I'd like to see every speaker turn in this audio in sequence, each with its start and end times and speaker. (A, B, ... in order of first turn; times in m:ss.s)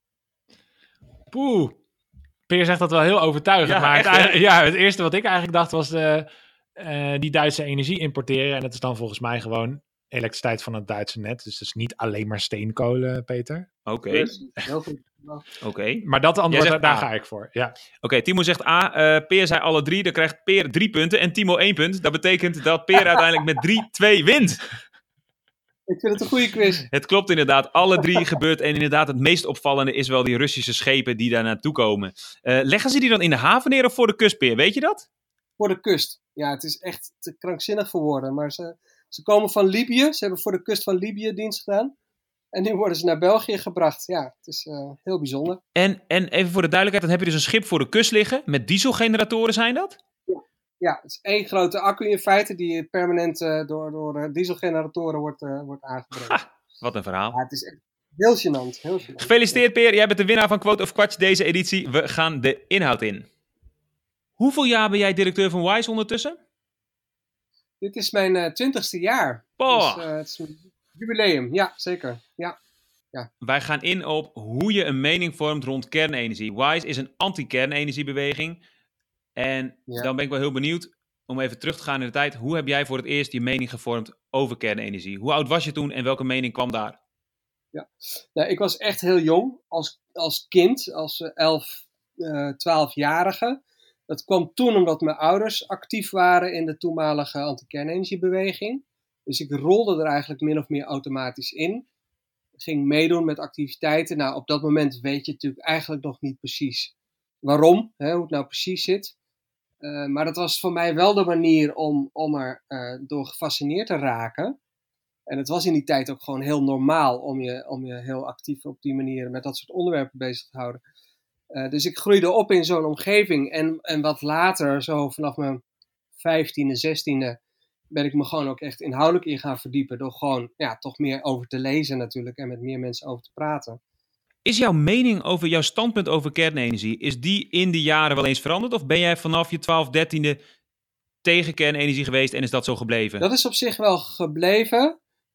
0:01.3-0:01.8 A
0:02.5-0:13.7 A
0:03.6-0:04.3 B
0:13.9-0:14.2 B
0:14.1-0:15.4 C
0:15.7-0:16.0 B
0:16.0-0:17.7 A
0:16.5-0:17.0 B
0:18.0-0:24.6 B
0:25.9-0:26.9 C
0:26.9-0:35.1 B
0:35.6-0:41.9 C
0:42.5-0:45.6 C
0:45.8-0:50.0 B
0:50.3-0:56.4 C
0:56.3-0:57.3 B
0:57.3-0:59.6 C
0:59.2-1:03.3 B
1:04.4-1:06.4 B
1:07.8-1:12.6 C
1:09.6-1:10.0 B
1:13.4-1:18.6 B
1:19.4-1:27.0 B
1:27.7-1:41.8 C
1:42.6-1:49.1 C
1:49.8-1:54.6 C
1:55.3-2:00.8 C
2:01.5-2:05.6 C
2:06.2-2:07.4 C
2:07.9-2:13.8 C
2:14.4-2:20.4 B
2:21.2-2:23.2 B
2:23.2-2:25.0 C